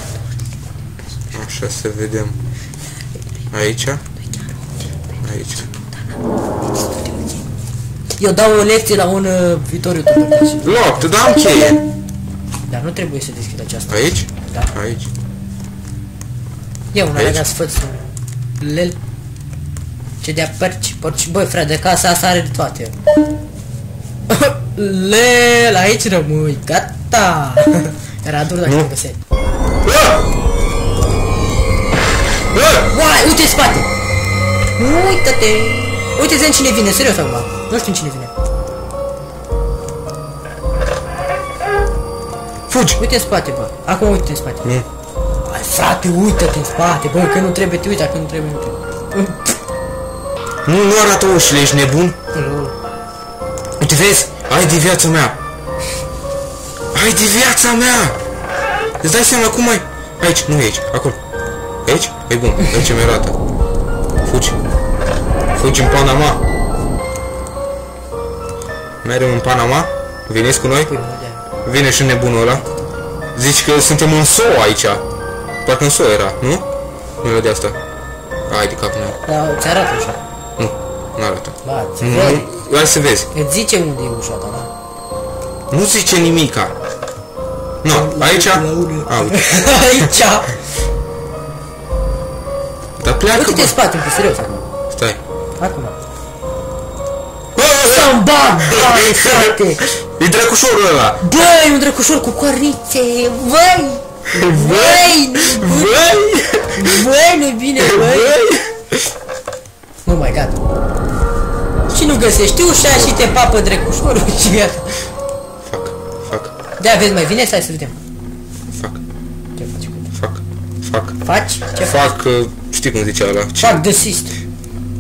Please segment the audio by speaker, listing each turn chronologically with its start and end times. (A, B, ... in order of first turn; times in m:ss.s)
0:01.3-0:02.4 A
0:03.5-0:04.0 A
0:05.2-0:05.7 A
0:08.2-0:11.1 B
0:10.6-0:11.8 A
0:12.7-0:14.7 B
0:13.9-0:15.1 A
0:16.9-0:18.1 B
0:17.2-0:17.4 A
0:18.6-0:19.0 B
0:20.2-0:23.0 B
0:24.3-0:29.2 B
0:29.8-0:30.2 A
0:32.5-0:32.9 A
0:32.8-0:33.9 B
0:34.8-0:38.3 B
0:42.7-0:43.0 A
0:43.0-0:44.6 B
0:45.5-0:49.6 B
0:50.7-0:52.2 A
0:52.3-0:52.7 B
0:53.8-0:55.4 A
0:56.9-0:58.2 A
0:59.0-1:01.2 A
1:01.9-1:03.4 A
1:04.2-1:04.6 A
1:05.6-1:06.4 A
1:09.0-1:10.9 A
1:10.9-1:11.4 B
1:11.6-1:12.6 A
1:13.4-1:15.0 A
1:15.6-1:16.6 A
1:17.2-1:17.8 A
1:18.5-1:19.2 A
1:19.3-1:20.2 B
1:20.6-1:23.3 A
1:21.6-1:22.5 B
1:23.3-1:24.7 B
1:25.7-1:26.8 A
1:27.8-1:30.0 A
1:27.9-1:30.6 B
1:33.0-1:33.8 A
1:33.3-1:34.7 B
1:34.9-1:35.2 A
1:35.6-1:36.0 B
1:37.6-1:39.2 A
1:37.8-1:39.9 B
1:40.2-1:41.4 A
1:41.2-1:46.1 B
1:44.3-1:47.0 A
1:46.8-1:48.4 B
1:47.8-1:48.8 A
1:50.0-1:50.6 B
1:51.9-1:54.9 B
1:55.7-1:56.5 A
1:56.8-1:58.0 B
1:58.7-1:59.0 A
1:59.6-2:00.0 B
2:00.1-2:01.2 A
2:01.2-2:02.1 B
2:01.8-2:03.8 A
2:03.6-2:04.3 B